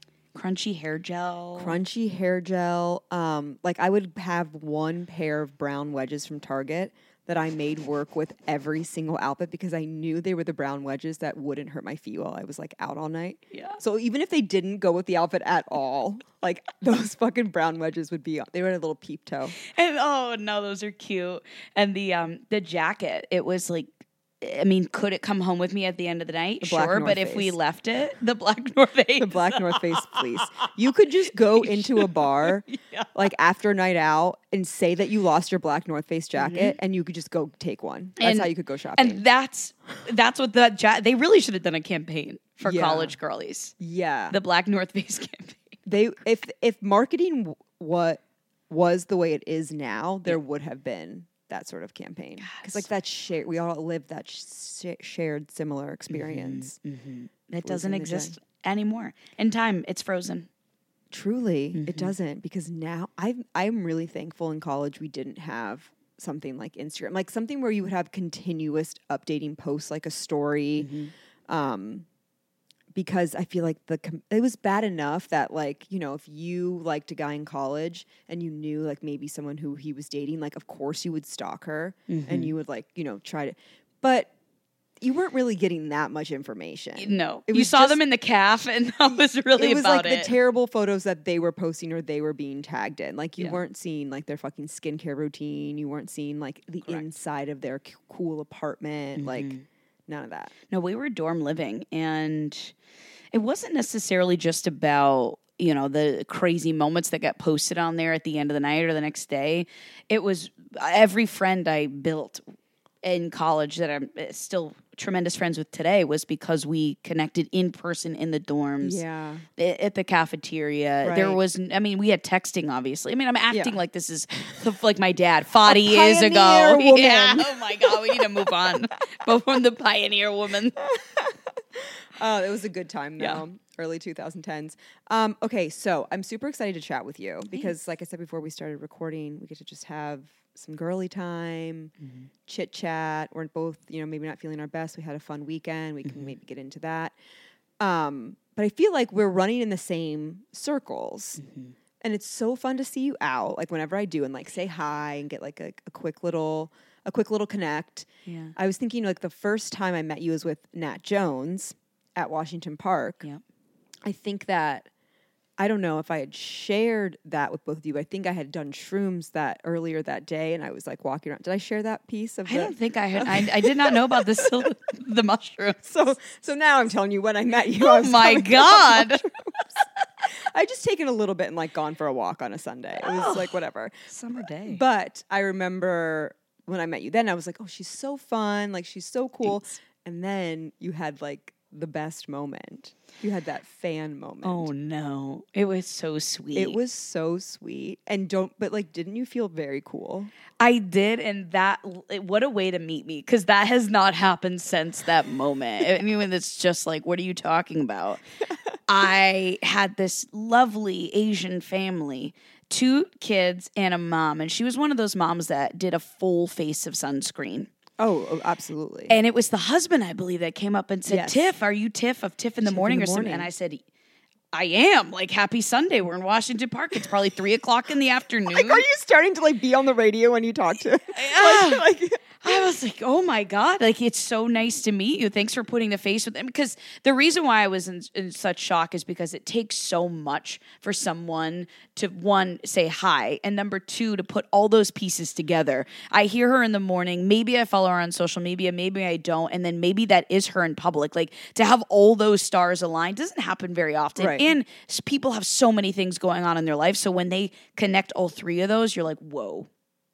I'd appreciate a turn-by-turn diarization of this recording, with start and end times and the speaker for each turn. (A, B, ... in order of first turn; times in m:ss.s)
0:00.4-0:01.8 A
0:01.6-0:19.6 B
0:13.5-0:13.8 A
0:19.6-0:23.9 A
0:24.4-0:30.7 A
0:26.6-0:27.6 B
0:29.2-0:39.2 B
0:31.5-0:33.2 A
0:36.4-0:36.8 A
0:38.2-0:43.8 A
0:42.6-0:43.2 B
0:43.8-0:44.4 B
0:44.3-0:45.8 A
0:45.9-0:56.8 B
0:52.4-0:52.8 A
0:56.1-1:00.5 A
0:57.6-0:58.4 B
1:01.1-1:10.9 B
1:01.7-1:02.1 A
1:10.8-1:11.1 A
1:11.5-1:12.1 B
1:12.9-1:24.3 B
1:22.1-1:22.6 A
1:25.0-1:28.0 B
1:27.0-1:30.3 A
1:29.1-1:39.5 B
1:39.2-1:39.6 A
1:40.1-1:40.5 B
1:40.7-1:42.7 A
1:43.3-1:52.4 A
1:53.0-1:59.0 A
1:58.8-1:59.4 B
1:59.6-2:10.9 A
2:01.0-2:01.4 B
2:03.5-2:03.8 B
2:05.7-2:08.7 B
2:10.9-2:21.9 B
2:22.0-2:22.3 A
2:22.5-2:27.2 B
2:26.0-2:26.3 A
2:27.8-2:31.4 B
2:31.4-2:31.8 A
2:32.0-2:43.2 B
2:38.3-2:38.5 A
2:44.0-2:44.9 B
2:45.6-2:54.7 B
2:52.5-2:55.8 A
2:55.8-3:03.9 B
2:57.8-2:59.2 A
3:03.0-3:03.6 A
3:04.1-3:04.8 A
3:04.7-3:14.7 B
3:14.4-3:16.8 A
3:16.6-3:20.3 B
3:20.6-3:28.2 A
3:28.9-3:37.7 A
3:38.0-3:39.1 B
3:39.1-3:43.8 A
3:41.1-3:41.4 B
3:42.6-3:43.5 B
3:44.5-3:48.9 A
3:48.5-3:52.6 B
3:51.1-3:51.8 A
3:52.4-4:19.7 A
4:14.2-4:14.5 B